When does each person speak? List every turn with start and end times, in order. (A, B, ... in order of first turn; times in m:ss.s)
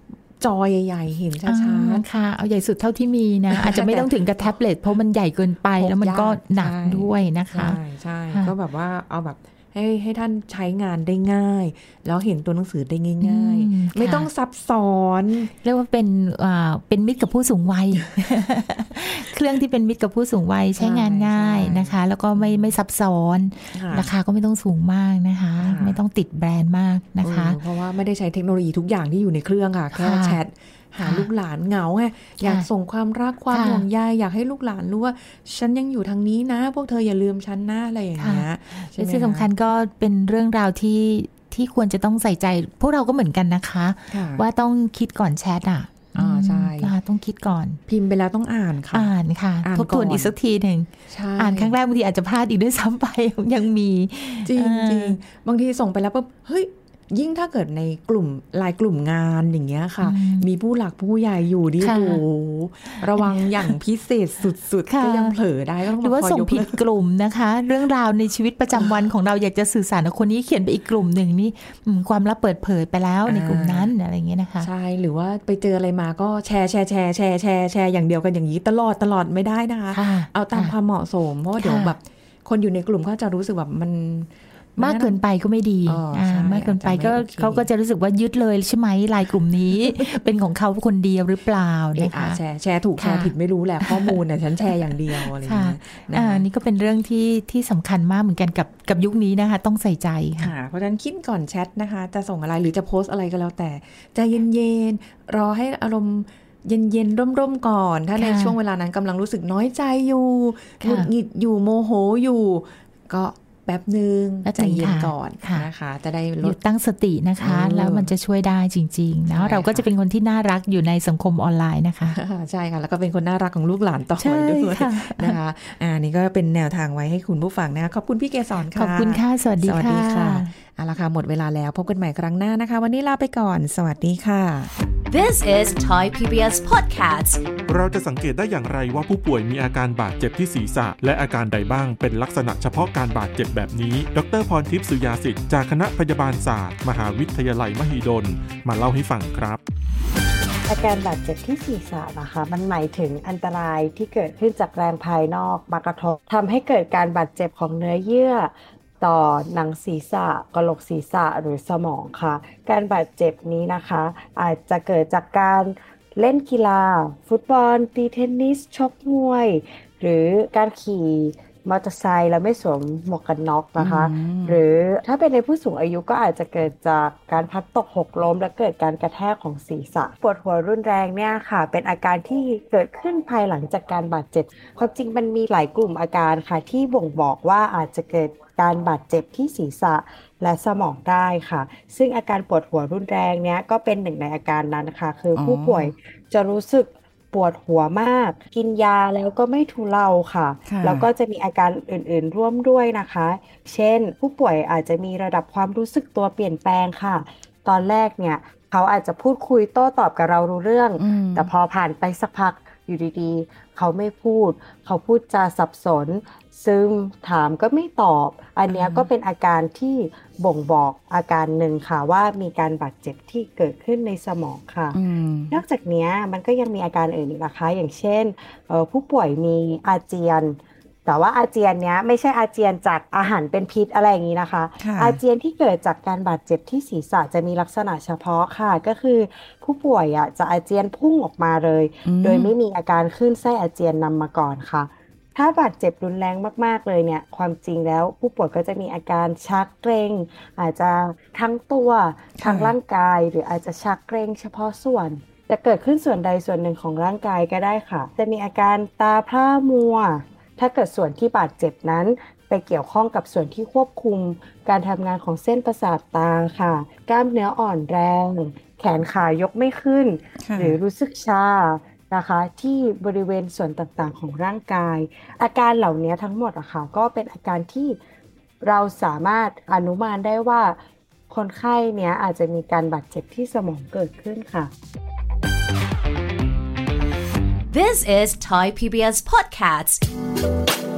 0:00.4-0:02.0 A
0:01.4-0:07.8 B
0:03.5-0:04.5 A
0:05.8-0:15.5 A
0:13.2-0:14.3 B
0:15.6-0:27.6 B
0:20.8-0:22.7 A
0:23.7-0:24.1 A
0:25.6-0:26.0 A
0:27.2-0:39.5 A
0:30.0-0:30.4 B
0:31.0-0:31.3 B
0:32.4-0:32.7 B
0:33.5-0:33.8 B
0:38.2-0:47.8 B
0:44.1-0:44.4 A
0:46.1-0:46.9 A
0:47.9-0:50.3 A
0:48.9-0:55.2 B
0:51.1-0:51.8 A
0:54.4-1:06.8 A
1:00.0-1:00.5 B
1:01.8-1:02.2 B
1:02.9-1:03.5 B
1:04.9-1:05.4 B
1:06.0-1:14.7 B
1:13.2-1:13.9 A
1:14.6-1:25.2 A
1:19.9-1:20.7 B
1:21.6-1:22.0 B
1:24.8-1:32.4 B
1:25.8-1:27.7 A
1:31.9-1:36.4 A
1:33.0-1:34.2 B
1:35.2-1:40.5 B
1:40.4-1:56.6 A
1:48.2-1:48.6 B
1:50.8-1:51.1 B
1:54.4-1:55.7 B
1:56.4-2:02.2 B
1:57.4-1:58.1 A
1:59.3-1:59.9 A
2:02.1-2:14.7 A
2:04.2-2:05.4 B
2:08.7-2:10.5 B
2:15.1-2:17.4 C
2:17.7-2:29.6 D
2:30.7-3:45.0 E
2:53.8-2:54.6 A
3:15.3-3:15.9 A
3:20.6-3:21.1 A
3:31.0-3:31.5 A
3:38.7-3:39.1 A
3:44.9-3:45.6 A
3:45.5-4:38.0 E
3:54.8-3:55.2 A
4:02.0-4:02.5 A
4:12.4-4:12.7 A
4:30.4-4:30.8 A
4:38.6-4:40.8 E
4:41.3-4:44.7 E
4:47.7-4:50.0 C